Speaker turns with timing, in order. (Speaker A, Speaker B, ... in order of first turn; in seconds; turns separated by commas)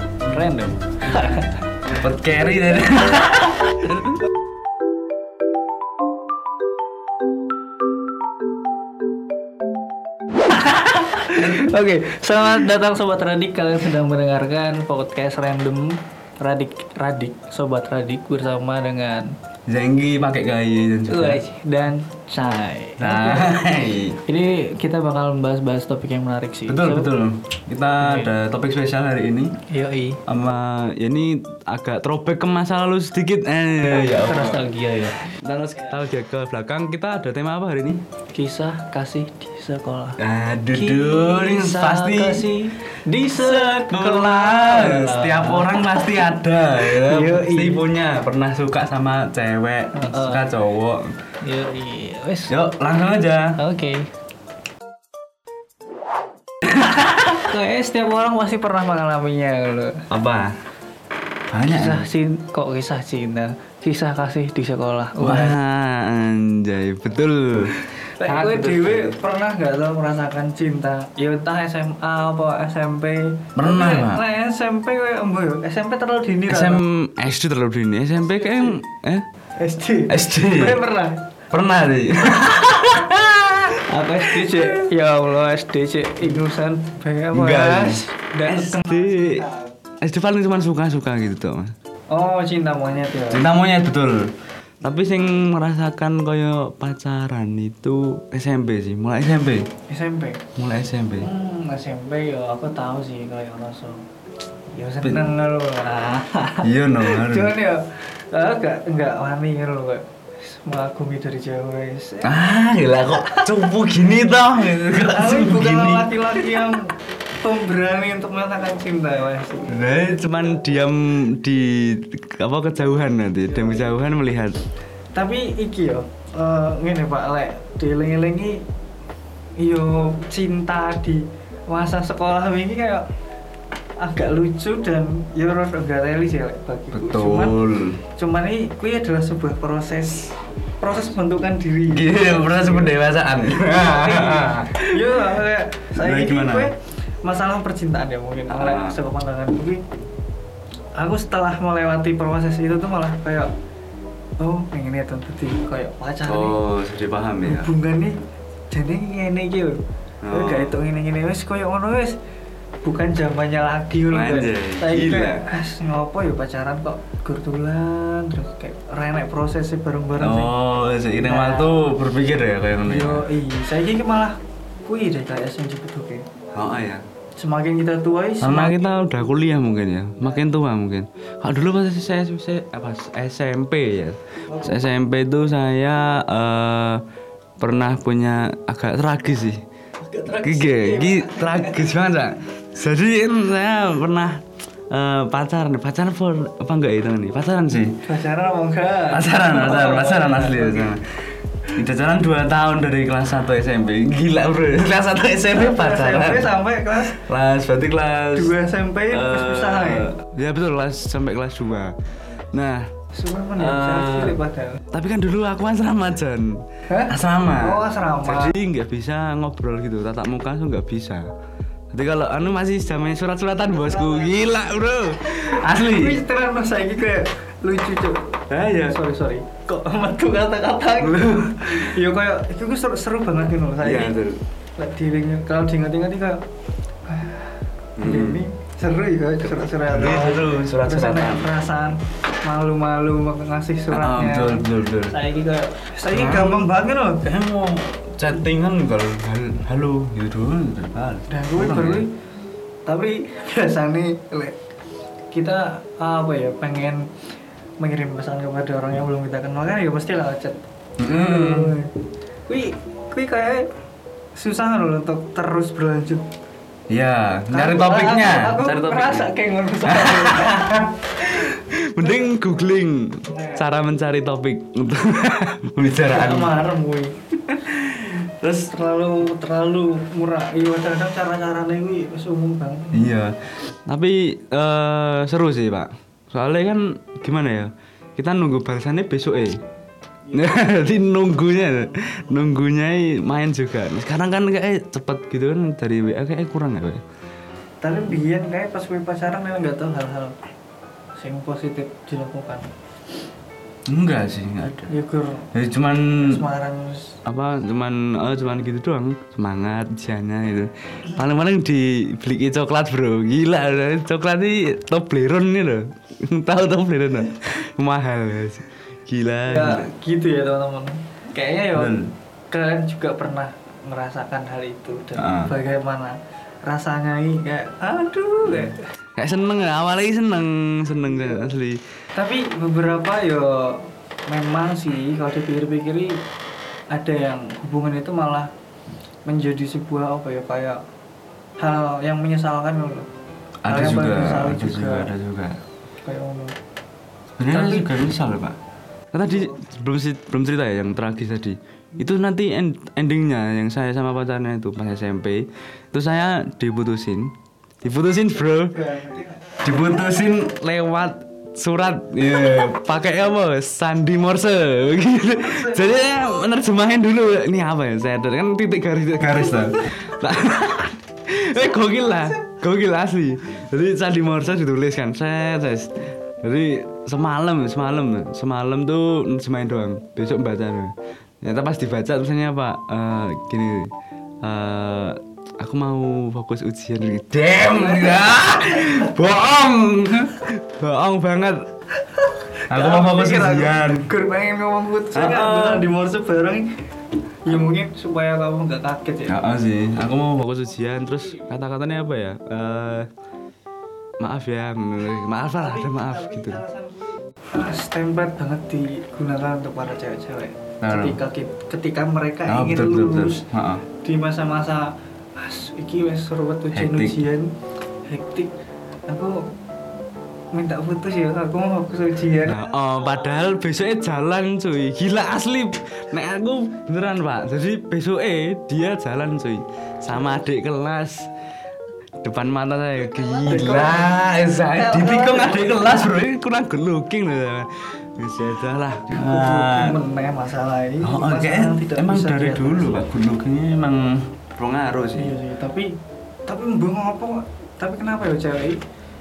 Speaker A: 0.3-1.6, Speaker B: 1.9-4.2, Speaker A: 10.5-19.3, Speaker B: 19.7-21.4, Speaker A: 21.1-23.6, Speaker B: 23.0-24.2, Speaker A: 24.2-27.1, Speaker B: 26.7-29.5, Speaker A: 28.0-28.3, Speaker A: 29.7-30.2, Speaker B: 30.3-34.6, Speaker A: 33.8-35.4, Speaker B: 35.2-38.0, Speaker A: 38.3-40.2, Speaker B: 40.2-42.5, Speaker A: 40.7-45.7, Speaker B: 43.3-51.1, Speaker A: 46.8-47.9, Speaker A: 49.9-50.5, Speaker A: 51.4-52.5, Speaker B: 52.5-53.6, Speaker A: 53.6-54.1, Speaker A: 56.7-60.0, Speaker B: 60.1-60.6, Speaker B: 61.5-62.1, Speaker A: 61.7-65.6, Speaker B: 65.2-69.2, Speaker A: 67.7-76.8, Speaker B: 73.6-74.2, Speaker B: 76.5-79.3, Speaker A: 78.2-78.8, Speaker A: 79.6-81.3, Speaker B: 80.1-80.8, Speaker B: 81.5-84.9, Speaker A: 83.7-89.7, Speaker B: 87.3-89.5, Speaker B: 90.0-91.7, Speaker A: 92.1-93.5, Speaker B: 93.3-99.7, Speaker A: 99.9-100.4, Speaker B: 100.6-101.3, Speaker A: 101.2-104.0, Speaker A: 104.7-112.3, Speaker B: 106.6-107.5, Speaker B: 112.2-116.7, Speaker A: 113.1-113.5, Speaker A: 115.0-119.8, Speaker B: 119.7-124.6, Speaker A: 125.1-128.6, Speaker A: 129.6-133.1, Speaker A: 134.0-143.0, Speaker B: 136.9-138.0, Speaker B: 141.9-145.4, Speaker A: 143.6-149.8, Speaker B: 146.0-146.7, Speaker B: 148.5-149.0, Speaker A: 151.0-153.5, Speaker A: 154.4-156.6, Speaker B: 156.3-157.7, Speaker A: 157.4-158.2, Speaker A: 158.7-162.2, Speaker B: 160.2-160.8, Speaker A: 162.8-170.5, Speaker B: 164.1-165.5, Speaker B: 170.2-173.2, Speaker A: 171.2-171.9, Speaker A: 172.8-176.3, Speaker B: 176.5-177.0, Speaker A: 177.4-179.0, Speaker B: 178.4-187.0, Speaker B: 187.6-189.6, Speaker A: 190.0-192.0, Speaker B: 190.4-198.0, Speaker A: 198.0-200.9, Speaker B: 199.1-208.6, Speaker A: 205.5-207.2, Speaker A: 208.3-210.1, Speaker B: 209.1-212.0, Speaker B: 212.5-212.9, Speaker A: 213.1-214.8, Speaker B: 213.6-214.4, Speaker B: 214.9-221.3, Speaker A: 217.6-218.6, Speaker B: 221.9-226.2, Speaker A: 223.9-224.6, Speaker A: 225.4-234.2, Speaker B: 228.5-229.0, Speaker B: 231.0-231.9, Speaker B: 233.8-234.4, Speaker A: 234.8-236.4, Speaker A: 237.1-247.3, Speaker B: 238.0-238.4, Speaker B: 239.8-241.5, Speaker B: 243.9-245.2, Speaker B: 246.1-246.7, Speaker B: 247.2-252.1, Speaker A: 251.3-252.2, Speaker A: 252.9-254.6, Speaker A: 255.3-257.1, Speaker A: 257.8-262.0, Speaker B: 261.0-261.8, Speaker A: 262.5-263.7, Speaker A: 264.4-266.3, Speaker B: 266.9-269.3, Speaker A: 267.5-270.9, Speaker B: 269.8-276.5, Speaker A: 276.1-277.1, Speaker B: 277.5-278.7, Speaker A: 278.7-283.1, Speaker B: 282.9-289.6, Speaker A: 290.3-290.8, Speaker B: 290.3-297.0, Speaker A: 297.8-300.4, Speaker A: 301.2-302.7, Speaker B: 303.9-304.9, Speaker A: 304.8-305.5, Speaker B: 305.5-306.4, Speaker A: 306.2-307.2, Speaker B: 307.3-319.9, Speaker A: 319.5-322.0, Speaker B: 321.7-322.1, Speaker A: 322.5-328.8, Speaker B: 325.2-325.5, Speaker B: 328.4-331.8, Speaker A: 332.1-336.2, Speaker A: 336.9-338.5, Speaker A: 339.3-340.8, Speaker A: 341.6-343.1, Speaker B: 343.6-345.6, Speaker A: 343.7-345.1, Speaker A: 346.0-346.6, Speaker B: 347.4-348.6, Speaker A: 347.5-347.9, Speaker B: 349.1-357.3, Speaker B: 357.8-358.9, Speaker A: 358.8-359.6, Speaker B: 359.6-383.9, Speaker B: 384.4-391.7, Speaker A: 387.7-388.9, Speaker B: 392.7-394.1, Speaker A: 392.7-396.7, Speaker B: 395.1-395.9, Speaker A: 397.4-399.5, Speaker B: 399.3-403.1, Speaker B: 404.2-406.6, Speaker A: 405.6-417.5, Speaker B: 410.8-411.2, Speaker B: 412.5-413.8, Speaker B: 416.7-417.2, Speaker A: 418.1-418.5, Speaker A: 419.1-419.4, Speaker A: 420.5-422.7, Speaker B: 422.4-431.3, Speaker B: 432.2-440.0, Speaker A: 433.4-436.1, Speaker A: 439.1-443.1, Speaker B: 441.0-445.4, Speaker A: 445.1-445.9, Speaker A: 446.5-448.8